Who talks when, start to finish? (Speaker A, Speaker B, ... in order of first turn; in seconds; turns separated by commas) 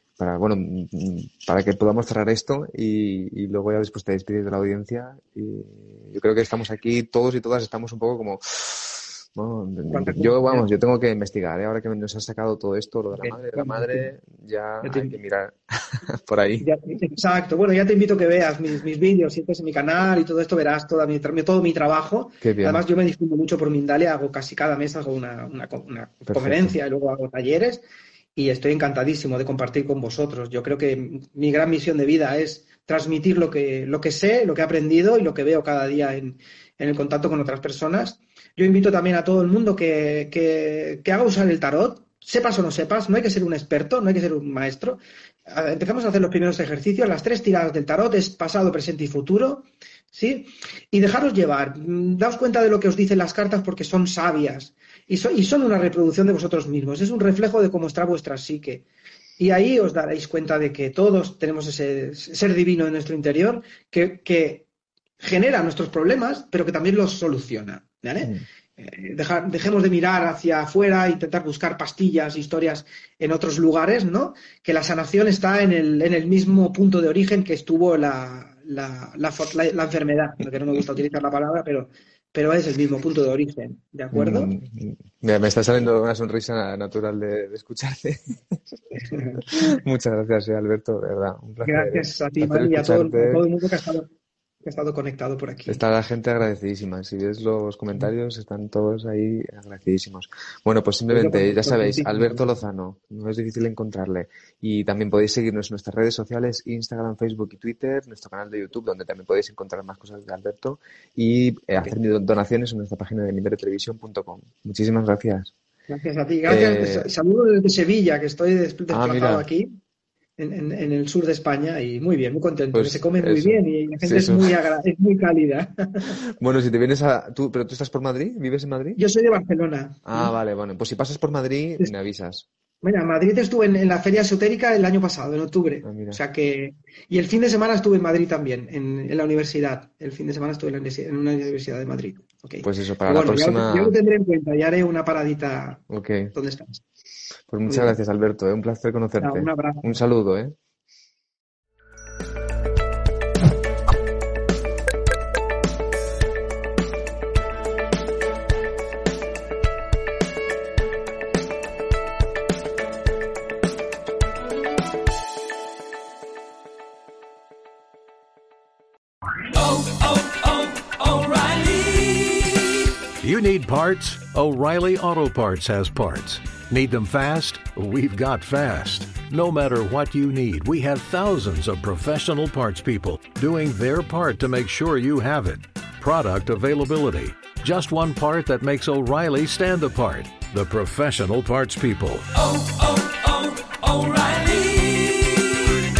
Speaker A: 0.2-16.7, Speaker B: 9.9-10.7, Speaker B: 13.1-14.1, Speaker B: 14.8-15.1, Speaker B: 16.6-27.8, Speaker A: 22.4-22.8, Speaker A: 26.3-26.7, Speaker B: 28.4-58.9, Speaker B: 59.4-64.7, Speaker B: 65.2-84.5, Speaker A: 84.1-88.6, Speaker B: 88.9-89.6, Speaker A: 89.5-93.4, Speaker B: 91.6-94.1, Speaker B: 94.6-95.8, Speaker A: 95.7-115.5, Speaker B: 101.1-102.4, Speaker B: 115.9-119.7, Speaker A: 116.5-117.1, Speaker A: 118.9-119.5, Speaker B: 120.4-126.2, Speaker A: 122.7-124.5, Speaker A: 126.2-129.0, Speaker B: 128.9-130.3, Speaker A: 130.0-132.4, Speaker B: 132.8-146.8, Speaker A: 135.8-136.2, Speaker A: 142.6-143.9, Speaker A: 145.9-146.3, Speaker A: 147.5-150.5, Speaker B: 147.7-147.9, Speaker B: 149.2-149.8, Speaker C: 169.5-195.7